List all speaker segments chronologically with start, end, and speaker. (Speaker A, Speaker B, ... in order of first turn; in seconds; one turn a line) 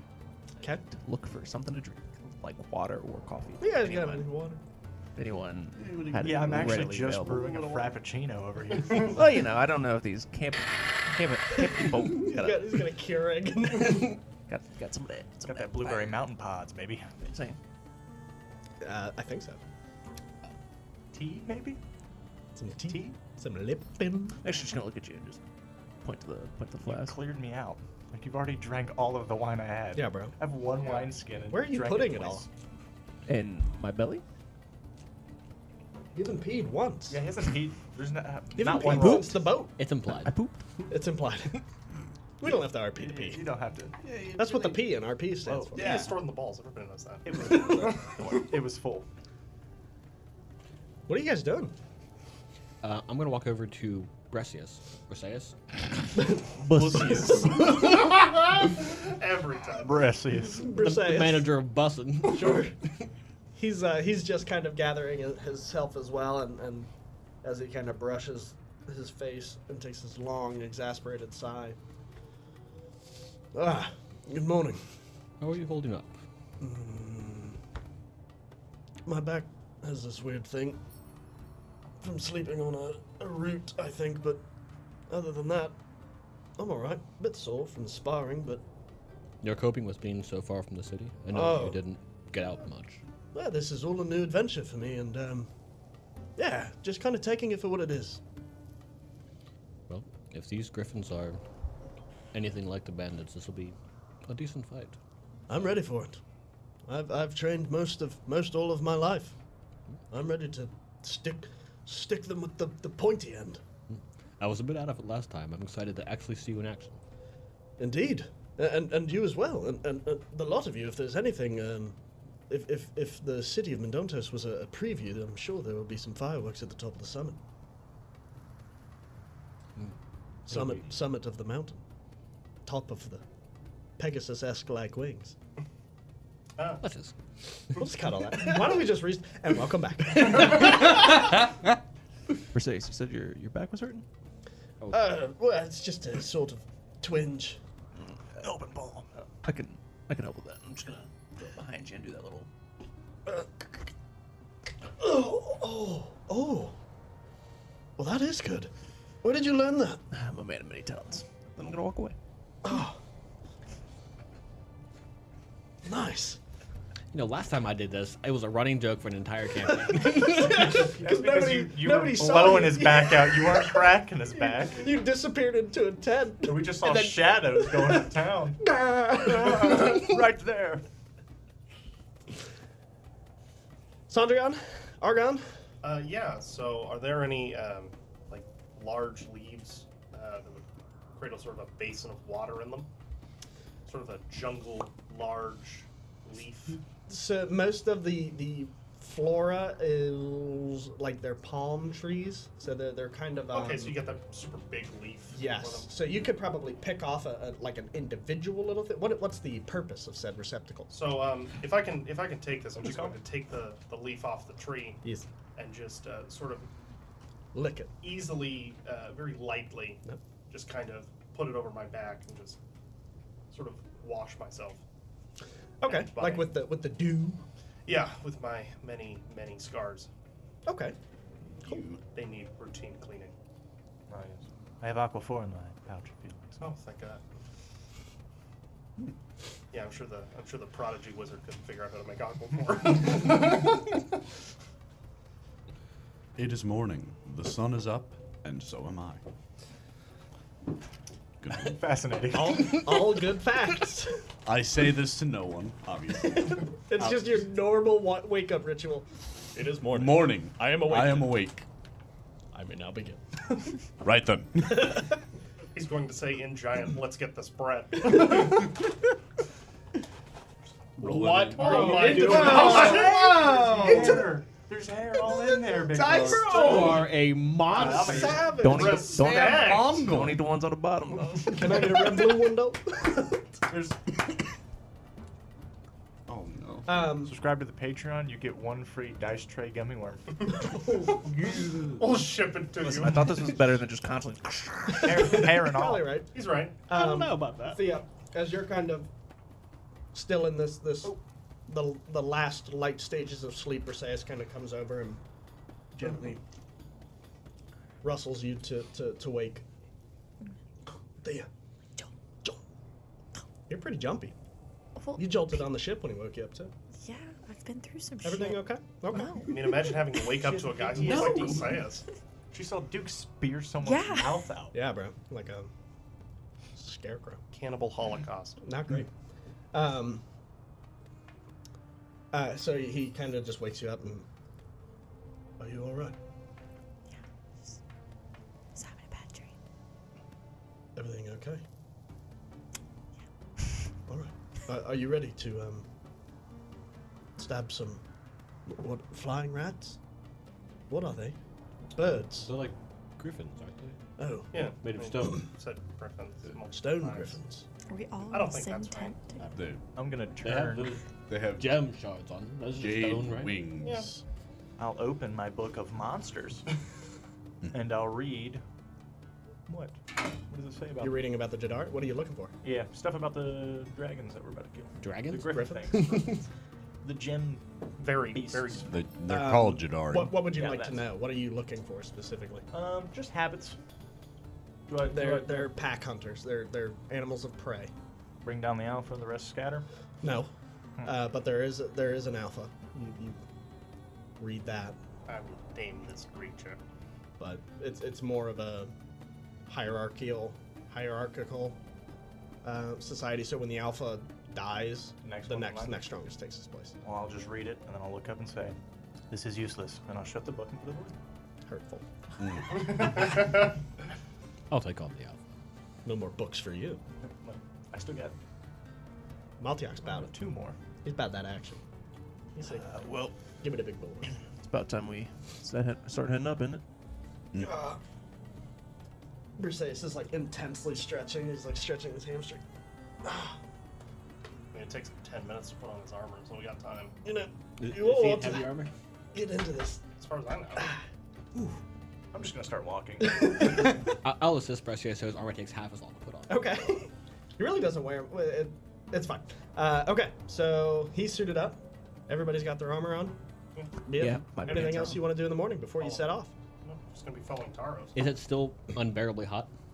Speaker A: 0.9-4.2
Speaker B: 3.6-4.6
Speaker A: 5.2-7.6
Speaker C: 5.8-7.9
Speaker D: 6.2-9.2
Speaker A: 9.1-12.9
Speaker B: 12.1-14.2
Speaker A: 13.8-16.2
Speaker D: 15.4-17.3
Speaker A: 17.2-17.6
Speaker B: 18.8-19.6
Speaker D: 21.1-21.8
Speaker B: 22.6-24.4
Speaker D: 22.9-23.1
Speaker A: 24.4-25.4
Speaker A: 26.0-27.2
Speaker D: 26.9-32.5
Speaker B: 29.9-30.3
Speaker E: 30.8-31.1
Speaker B: 31.5-32.5
Speaker A: 33.3-34.2
Speaker B: 36.1-37.2
Speaker D: 37.1-39.4
Speaker B: 38.6-39.7
Speaker A: 38.8-39.5
Speaker F: 39.8-40.3
Speaker A: 40.1-40.6
Speaker B: 40.9-41.6
Speaker B: 42.4-43.4
Speaker D: 43.0-44.0
Speaker C: 44.1-44.7
Speaker B: 44.4-45.9
Speaker D: 45.5-46.1
Speaker E: 45.7-48.0
Speaker D: 47.2-49.1
Speaker B: 47.5-48.0
Speaker B: 51.1-51.7
Speaker F: 52.8-55.6
Speaker A: 56.6-57.5
Speaker C: 56.7-57.9
Speaker B: 57.3-57.9
Speaker E: 58.6-60.2
Speaker D: 59.8-60.7
Speaker B: 60.6-61.5
Speaker F: 60.7-62.7
Speaker B: 62.2-62.8
Speaker B: 63.5-66.9
Speaker B: 67.4-71.8
Speaker B: 73.5-74.8
Speaker F: 75.4-76.2
Speaker B: 76.6-77.6
Speaker B: 79.0-80.8
Speaker B: 82.0-84.4
Speaker B: 85.1-85.8
Speaker B: 86.6-88.6
Speaker F: 89.4-93.0
Speaker B: 91.3-91.8
Speaker B: 93.3-95.5
Speaker B: 96.4-98.2
Speaker F: 99.9-101.4
Speaker F: 102.3-105.0
Speaker B: 105.5-106.2
Speaker B: 106.9-109.4
Speaker B: 110.1-113.6
Speaker F: 113.9-117.0
Speaker B: 117.8-122.0
Speaker B: 122.5-127.4
Speaker B: 130.5-131.8
Speaker F: 130.5-130.9
Speaker B: 132.6-133.2
Speaker B: 134.0-135.3
Speaker E: 136.6-136.9
Speaker F: 136.8-137.1
Speaker B: 137.7-141.2
Speaker A: 142.5-144.1
Speaker B: 144.9-147.6
Speaker A: 147.9-152.5
Speaker B: 155.0-156.8
Speaker B: 158.0-158.7
Speaker B: 159.2-160.0
Speaker A: 160.1-162.2
Speaker B: 162.6-163.0
Speaker B: 165.8-166.4
Speaker F: 167.1-170.9
Speaker B: 169.9-176.7
Speaker D: 170.6-174.9
Speaker D: 176.4-178.6
Speaker F: 176.8-177.2
Speaker B: 178.6-180.1
Speaker D: 179.1-180.8
Speaker B: 184.1-185.4
Speaker E: 185.8-192.9
Speaker E: 193.8-196.8
Speaker B: 197.1-204.0
Speaker E: 203.5-205.9
Speaker B: 205.3-210.9
Speaker E: 210.9-216.7
Speaker B: 217.5-217.9
Speaker E: 218.0-222.6
Speaker E: 223.5-224.8
Speaker B: 225.8-227.4
Speaker E: 225.8-226.5
Speaker E: 227.8-230.1
Speaker B: 230.7-231.0
Speaker C: 231.5-232.0
Speaker E: 232.1-233.3
Speaker D: 234.1-236.7
Speaker E: 236.6-237.2
Speaker E: 239.7-243.8
Speaker C: 246.3-249.2
Speaker C: 251.4-251.8
Speaker D: 251.6-253.0
Speaker B: 252.3-254.2
Speaker C: 254.4-257.3
Speaker B: 256.7-261.3
Speaker C: 259.6-261.7
Speaker B: 262.5-263.7
Speaker C: 264.0-265.1
Speaker E: 265.7-268.8
Speaker C: 271.0-274.3
Speaker E: 271.0-273.4
Speaker B: 271.6-274.2
Speaker D: 272.2-277.1
Speaker B: 275.9-277.1
Speaker F: 276.0-278.5
Speaker B: 277.7-279.3
Speaker D: 277.7-278.6
Speaker E: 277.7-280.1
Speaker A: 278.5-282.1
Speaker C: 279.0-280.6
Speaker B: 281.5-283.4
Speaker C: 286.3-287.1
Speaker B: 286.9-287.3
Speaker D: 287.2-290.4
Speaker E: 290.4-291.3
Speaker C: 291.2-291.9
Speaker E: 291.9-293.6
Speaker A: 292.8-295.1
Speaker D: 294.9-296.2
Speaker B: 295.0-296.3
Speaker E: 296.3-296.8
Speaker B: 296.9-299.1
Speaker F: 296.9-297.8
Speaker B: 300.1-305.2
Speaker B: 305.9-306.4
Speaker B: 308.0-309.6
Speaker B: 311.2-311.5
Speaker B: 313.7-314.3
Speaker G: 315.0-315.6
Speaker B: 315.1-316.7
Speaker G: 317.0-318.6
Speaker B: 318.2-319.5
Speaker E: 319.3-322.0
Speaker D: 320.2-321.8
Speaker C: 321.0-321.7
Speaker D: 322.5-324.7
Speaker G: 323.8-324.5
Speaker B: 324.7-325.7
Speaker B: 326.7-327.4
Speaker E: 327.5-328.6
Speaker B: 328.6-329.1
Speaker B: 329.7-330.2
Speaker B: 332.3-334.2
Speaker B: 335.6-336.2
Speaker G: 338.7-339.5
Speaker B: 340.9-341.6
Speaker B: 344.1-345.9
Speaker B: 347.4-348.0
Speaker B: 348.7-350.0
Speaker B: 350.9-351.4
Speaker B: 351.9-352.5
Speaker F: 352.4-354.0
Speaker B: 354.2-354.5
Speaker E: 354.5-357.4
Speaker F: 354.8-355.5
Speaker B: 356.7-357.6
Speaker G: 357.9-359.4
Speaker E: 358.3-359.3
Speaker C: 359.5-359.8
Speaker D: 359.9-361.0
Speaker F: 360.4-363.6
Speaker C: 361.3-361.8
Speaker C: 362.8-364.2
Speaker E: 363.8-364.1
Speaker D: 364.8-366.7
Speaker D: 367.7-368.6
Speaker D: 369.7-370.0
Speaker D: 370.5-371.2
Speaker B: 371.0-372.5
Speaker D: 372.6-376.4
Speaker F: 375.0-376.4
Speaker B: 375.5-375.9
Speaker D: 377.0-378.9
Speaker E: 378.0-378.9
Speaker C: 378.8-380.4
Speaker B: 379.3-382.6
Speaker D: 380.5-381.0
Speaker D: 382.7-383.8
Speaker D: 384.9-385.7
Speaker B: 385.0-387.9
Speaker D: 388.4-389.9
Speaker B: 390.2-390.5
Speaker B: 391.0-393.4
Speaker B: 394.4-395.0
Speaker E: 395.3-396.8
Speaker B: 397.4-398.9
Speaker B: 399.7-401.8
Speaker B: 402.6-406.9
Speaker D: 405.2-406.0
Speaker D: 407.0-408.8
Speaker D: 409.3-411.1
Speaker B: 411.7-412.0
Speaker C: 412.4-413.3
Speaker E: 412.7-413.7
Speaker F: 414.7-415.4
Speaker B: 416.1-417.0
Speaker D: 417.2-418.4
Speaker B: 419.6-420.3
Speaker D: 420.0-420.8
Speaker B: 421.0-421.8
Speaker B: 422.5-422.8
Speaker A: 422.6-423.4
Speaker B: 423.6-424.3
Speaker A: 424.6-426.8
Speaker C: 427.5-427.8
Speaker B: 427.6-428.0
Speaker B: 429.6-432.6
Speaker B: 433.2-433.6
Speaker E: 434.7-437.1
Speaker B: 437.2-438.8
Speaker F: 437.8-438.9
Speaker B: 439.3-440.0
Speaker E: 440.1-440.9
Speaker D: 442.3-443.9
Speaker B: 443.2-443.9
Speaker F: 444.2-446.7
Speaker B: 446.5-453.4
Speaker E: 453.8-454.0
Speaker B: 454.0-456.5
Speaker F: 454.2-454.5
Speaker A: 454.2-455.3
Speaker E: 454.7-455.1
Speaker E: 456.0-456.3
Speaker E: 456.8-458.4
Speaker F: 458.1-459.7